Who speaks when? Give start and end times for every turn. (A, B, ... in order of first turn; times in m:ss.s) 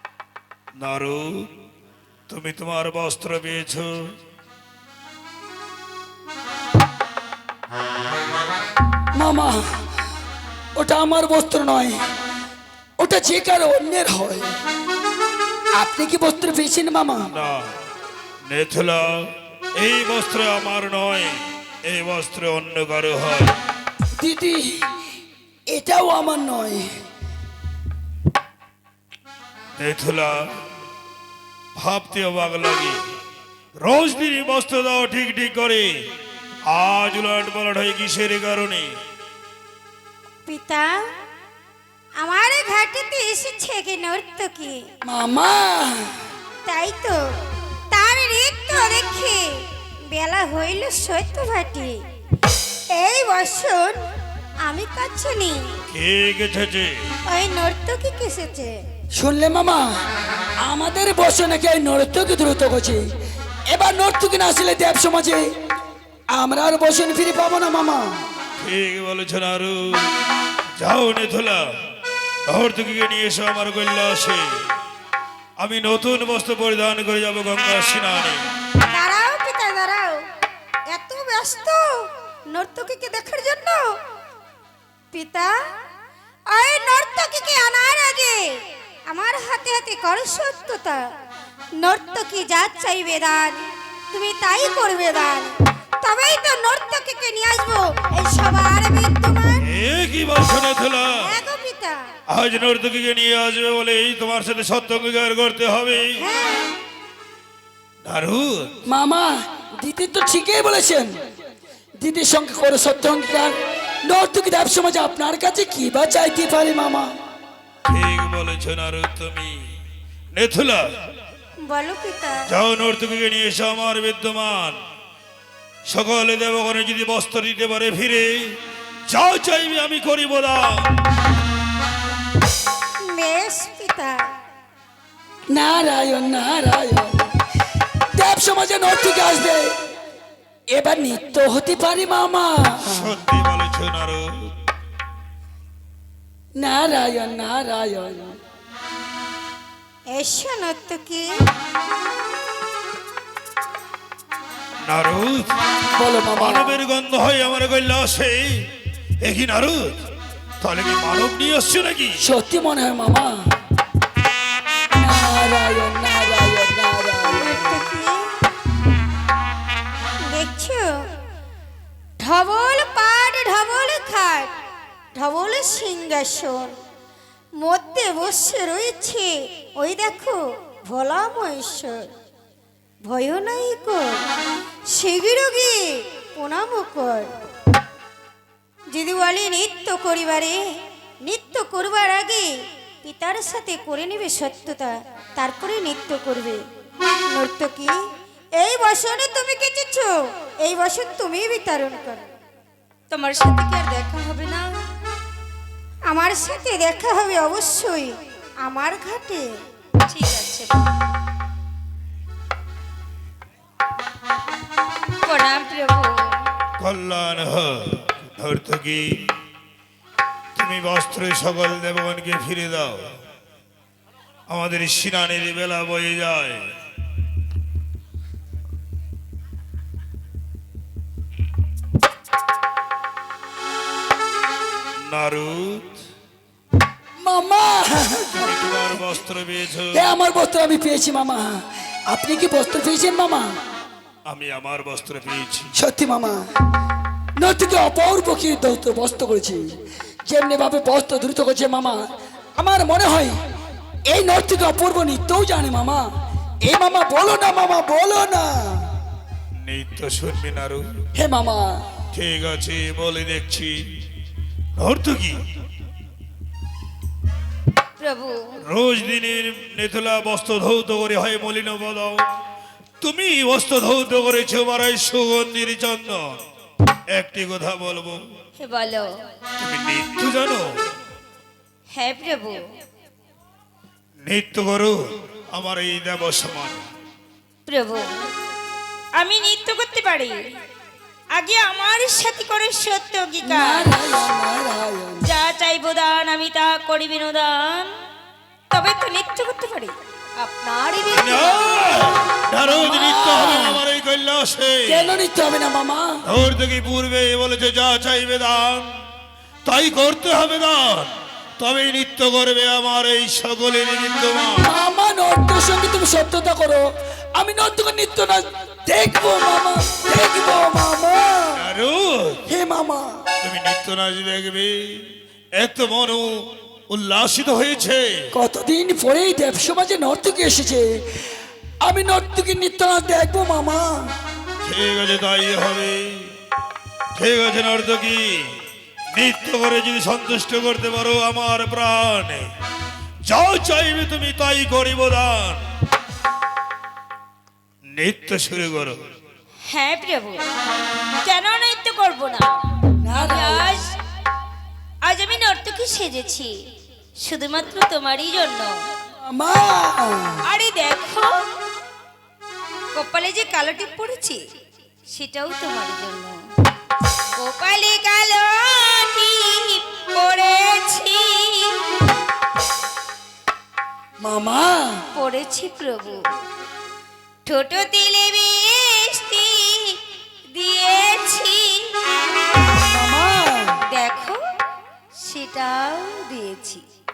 0:00.8-0:01.5 A
0:02.3-0:04.0 A
0:09.2-0:09.6 B
0:10.8-0:12.0 B
0:13.0-0:14.5 B
0:15.8-0:17.3 B
0:17.3-0:17.7 A
0:18.5-0:23.6 A
0:24.2-0:24.9 B
0:25.7-0:26.9 B
0:29.8-0:30.4 A
0:31.8-0:33.0 A
0:33.8-0:35.9 A
0:36.7-0:38.9 A
0:40.5-0:41.0 C
0:42.2-0:44.8 C
0:45.0-0:46.2 B
0:46.6-0:47.2 C
0:47.9-0:49.5 C
0:50.1-0:51.9 C
0:52.9-0:54.0 C
0:54.6-0:55.6 C
0:55.9-0:57.0 A
0:57.3-0:58.7 C
0:59.2-0:59.9 B
1:00.6-1:03.0 B
1:03.7-1:05.5 B
1:06.3-1:08.1 B
1:08.6-1:10.1 A
1:10.8-1:11.6 A
1:12.5-1:14.5 A
1:15.6-1:18.4 A
1:18.9-1:20.2 C
1:20.9-1:21.8 C
1:22.5-1:23.8 C
1:25.1-1:25.5 C
1:26.5-1:28.6 C
1:29.1-1:31.0 C
1:31.8-1:39.7 C
1:39.6-1:41.2 A
1:41.1-1:42.0 C
1:42.3-1:46.2 A
1:46.2-1:46.6 C
1:48.0-1:48.8 A
1:48.9-1:49.3 B
1:49.8-1:51.1 B
1:52.0-1:57.1 B
1:57.9-1:59.6 A
2:00.3-2:00.8 A
2:01.7-2:02.5 C
2:02.5-2:04.8 A
2:05.9-2:11.0 A
2:13.1-2:14.2 C
2:15.5-2:17.3 B
2:18.2-2:19.8 B
2:20.7-2:23.1 B
2:22.9-2:24.3 A
2:26.6-2:28.4 B
2:30.1-2:31.2 C
2:34.8-2:35.6 A
2:36.0-2:36.8 B
2:36.4-2:38.7 A
2:39.2-2:40.0 A
2:40.6-2:42.2 A
2:42.2-2:43.4 B
2:45.0-2:47.8 B
2:47.4-2:48.3 C
2:50.3-2:50.9 C
2:52.2-2:54.5 C
2:55.2-2:56.7 C
2:57.6-3:02.1 C
3:03.1-3:04.2 C
3:04.9-3:07.3 C
3:08.9-3:10.6 C
3:11.2-3:12.5 C
3:13.0-3:16.6 C
3:17.3-3:17.9 C
3:18.6-3:22.3 C
3:23.1-3:24.8 D
3:26.1-3:29.5 C
3:30.1-3:30.9 D
3:35.3-3:36.2 D
3:36.8-3:39.1 A
3:40.6-3:43.1 A
3:44.5-3:46.6 A
3:55.0-3:56.0 A
3:57.2-3:58.5 B
3:58.4-4:00.1 A
3:59.9-4:03.5 B
4:04.3-4:05.7 A
4:05.7-4:06.4 B
4:07.4-4:09.6 B
4:10.3-4:12.0 B
4:12.6-4:13.4 B
4:14.1-4:16.0 B
4:16.6-4:18.9 B
4:19.6-4:20.8 A
4:21.2-4:21.8 B
4:22.1-4:23.8 A
4:24.8-4:25.4 A
4:28.7-4:32.3 A
4:33.0-4:36.4 A
4:37.1-4:38.2 A
4:38.7-4:39.0 D
4:39.6-4:40.7 A
4:42.0-4:42.6 D
4:44.2-4:45.0 A
4:45.5-4:46.8 A
4:47.7-4:48.0 D
4:49.2-4:50.4 D
4:51.4-4:53.9 D
4:53.4-4:55.3 B
4:55.3-4:57.9 D
4:58.7-4:59.5 D
4:59.4-4:59.9 C
5:00.4-5:01.7 C
5:01.1-5:05.2 A
5:01.3-5:01.9 D
5:02.7-5:03.8 B
5:04.9-5:06.1 B
5:06.3-5:08.9 A
5:09.6-5:14.7 A
5:14.6-5:21.6 B
5:21.6-5:22.4 A
5:22.5-5:23.1 B
5:23.4-5:25.1 A
5:25.6-5:26.3 A
5:26.9-5:28.2 A
5:28.3-5:31.0 B
5:31.8-5:34.1 B
5:34.6-5:36.3 A
5:37.2-5:38.6 A
5:39.1-5:42.4 A
5:43.2-5:45.6 A
5:47.9-5:49.0 A
5:49.7-5:50.4 D
5:51.2-5:52.6 D
5:53.0-5:53.8 B
5:53.2-5:53.9 D
5:55.1-5:56.5 D
5:57.3-5:58.7 D
5:59.3-6:00.4 B
6:00.5-6:01.3 D
6:03.0-6:04.4 D
6:05.1-6:06.4 D
6:07.4-6:11.8 D
6:07.4-6:08.5 C
6:14.2-6:15.0 B
6:15.3-6:16.2 D
6:17.5-6:19.9 D
6:20.6-6:21.7 D
6:22.9-6:23.8 B
6:24.0-6:24.4 D
6:25.2-6:26.8 D